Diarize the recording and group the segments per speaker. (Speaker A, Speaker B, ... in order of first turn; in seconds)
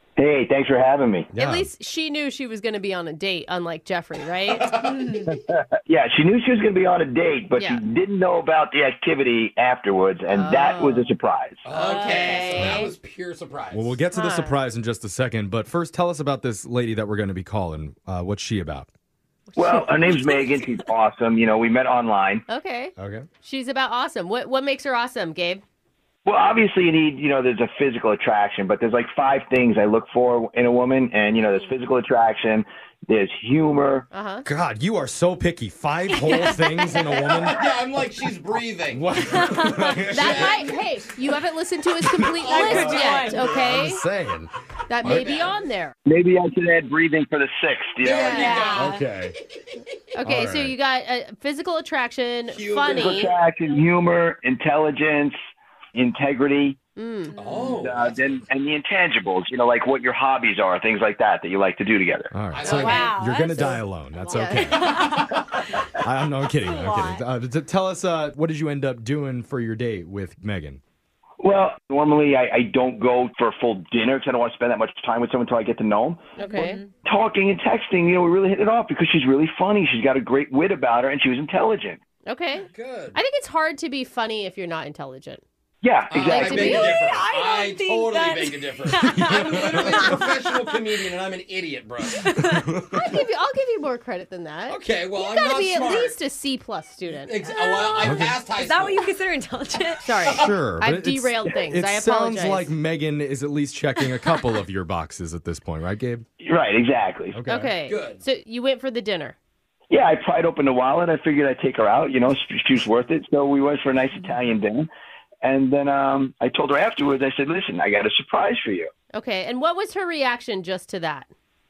Speaker A: 0.2-1.3, 5.3-11.6, 19.5-22.4, 26.2-34.1, 46.0-48.4, 52.9-55.4, 55.9-56.8, 57.7-62.3, 71.4-76.3, 77.0-82.0, 85.8-86.8, 106.4-107.4, 109.9-114.9, 115.4-118.9
Speaker B: 1.3-1.7, 12.6-12.8, 13.7-18.9, 23.0-23.3, 34.4-37.6, 38.9-40.6, 42.0-44.5, 48.7-49.4, 50.2-50.8, 62.3-65.2, 66.0-70.8, 89.0-90.1, 92.5-93.1, 98.0-98.4, 100.3-106.2, 107.3-107.7
Speaker C: 1.3-4.9, 10.3-11.1, 11.8-12.9, 14.1-14.6, 19.5-20.5, 22.5-25.6, 34.1-34.4, 40.1-44.0, 44.9-45.9, 48.2-48.6, 50.1-53.3, 57.0-57.6, 62.7-63.1, 64.3-65.2, 76.4-76.8, 82.2-85.4, 86.2-87.0, 92.9-97.4, 100.0-102.7, 107.5-109.3, 119.1-121.3
Speaker D: 4.5-5.0, 11.6-13.9, 37.5-39.1, 39.9-40.8, 42.4-43.6, 45.0-45.6, 48.0-49.0, 52.5-53.2, 57.4-58.4, 62.5-63.1, 64.9-65.4, 82.7-83.2, 86.1-92.2, 94.7-96.2, 97.1-99.1, 100.2-100.5, 107.8-108.2
Speaker E: 4.8-5.4, 11.7-12.7, 42.5-43.4, 48.1-49.0, 57.4-57.7, 62.7-65.4, 66.6-67.2, 76.4-76.9, 86.4-90.7, 92.1-92.7, 97.4-100.0